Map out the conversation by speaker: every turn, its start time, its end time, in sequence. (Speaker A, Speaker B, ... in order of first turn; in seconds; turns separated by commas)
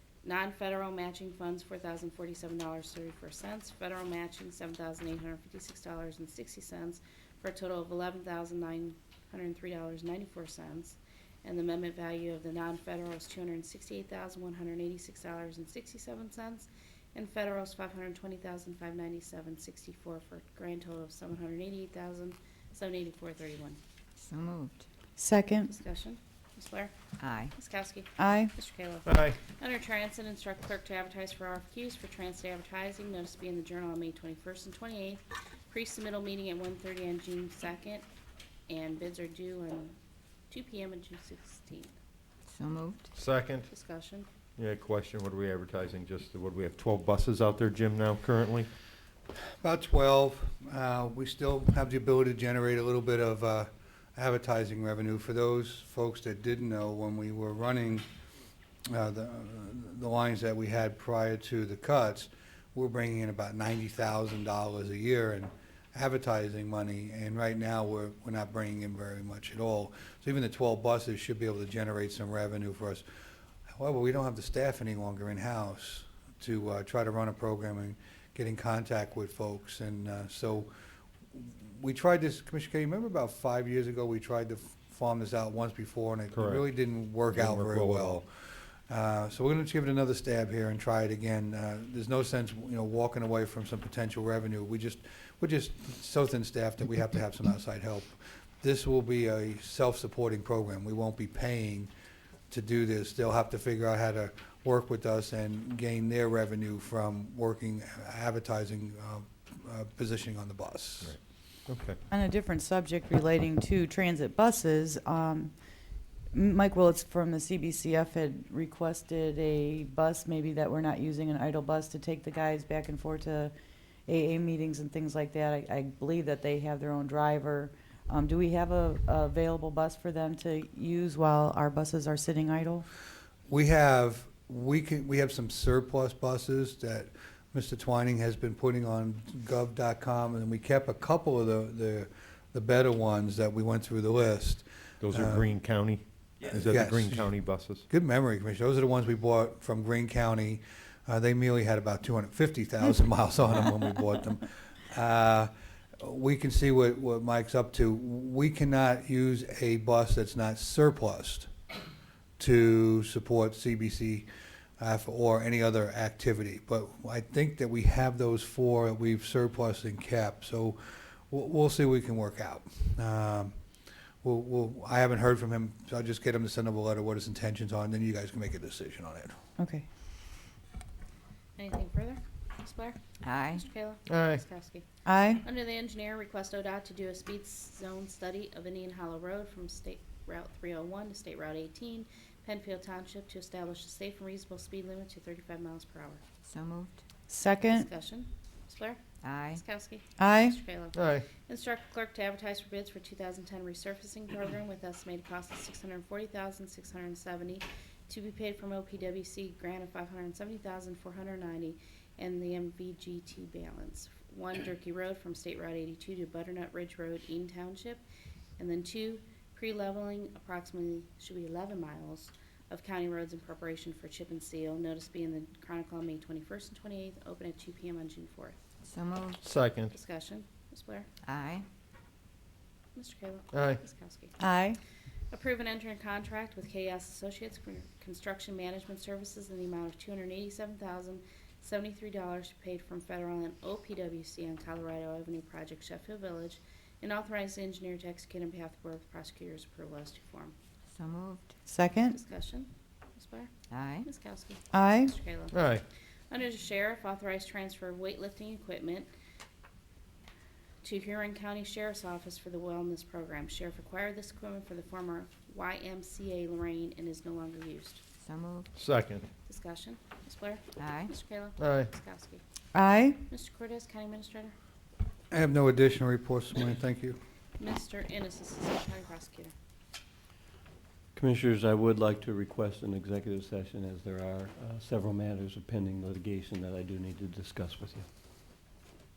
Speaker A: 0.2-23.8, Speaker B: 24.2-24.8, Speaker C: 25.2-25.7, Speaker A: 25.6-26.9, Speaker B: 27.2-27.5, Speaker A: 27.5-38.0, Speaker C: 28.2-28.5, Speaker D: 29.1-29.4, Speaker A: 38.7-40.0, Speaker A: 40.5-41.9, Speaker B: 42.5-43.1, Speaker D: 43.1-43.7, Speaker A: 43.7-44.2, Speaker D: 44.6-48.7, Speaker E: 49.6-58.0, Speaker E: 58.9-73.0, Speaker E: 73.8-80.7, Speaker E: 81.3-88.3, Speaker D: 86.3-86.6, Speaker D: 87.3-88.2, Speaker E: 88.9-101.9, Speaker E: 102.5-111.2, Speaker D: 111.0-112.0, Speaker C: 112.1-115.5, Speaker C: 116.3-123.5, Speaker C: 124.0-132.8, Speaker E: 133.5-145.5, Speaker D: 145.0-147.8, Speaker E: 146.5-147.3, Speaker E: 147.9-161.5, Speaker E: 162.4-164.2, Speaker E: 164.8-173.5, Speaker E: 174.2-179.3, Speaker C: 179.6-179.8, Speaker A: 181.6-184.8, Speaker B: 183.2-183.6, Speaker D: 184.1-184.4, Speaker C: 185.1-185.4, Speaker A: 185.4-196.2, Speaker B: 196.4-196.9, Speaker C: 197.3-197.9, Speaker A: 197.6-199.0, Speaker B: 199.2-199.6, Speaker A: 199.5-218.0, Speaker C: 200.2-200.6, Speaker D: 200.9-201.2, Speaker A: 218.6-228.6, Speaker B: 228.8-229.4, Speaker D: 229.4-229.9, Speaker A: 229.9-231.1, Speaker B: 231.2-231.6, Speaker A: 232.9-234.3, Speaker D: 233.5-233.8, Speaker C: 234.4-234.8, Speaker A: 235.3-250.6, Speaker B: 250.9-251.5, Speaker C: 251.7-252.2, Speaker A: 252.1-255.6, Speaker B: 253.7-254.1, Speaker C: 254.7-255.1, Speaker D: 255.5-255.8, Speaker A: 256.3-259.1, Speaker A: 260.8-268.0, Speaker B: 268.2-268.7, Speaker D: 268.7-269.3, Speaker A: 269.4-272.4, Speaker B: 270.8-271.1, Speaker D: 271.6-271.9, Speaker C: 272.7-273.2, Speaker A: 273.3-274.5, Speaker E: 275.3-277.2, Speaker A: 277.6-279.5, Speaker F: 281.1-288.1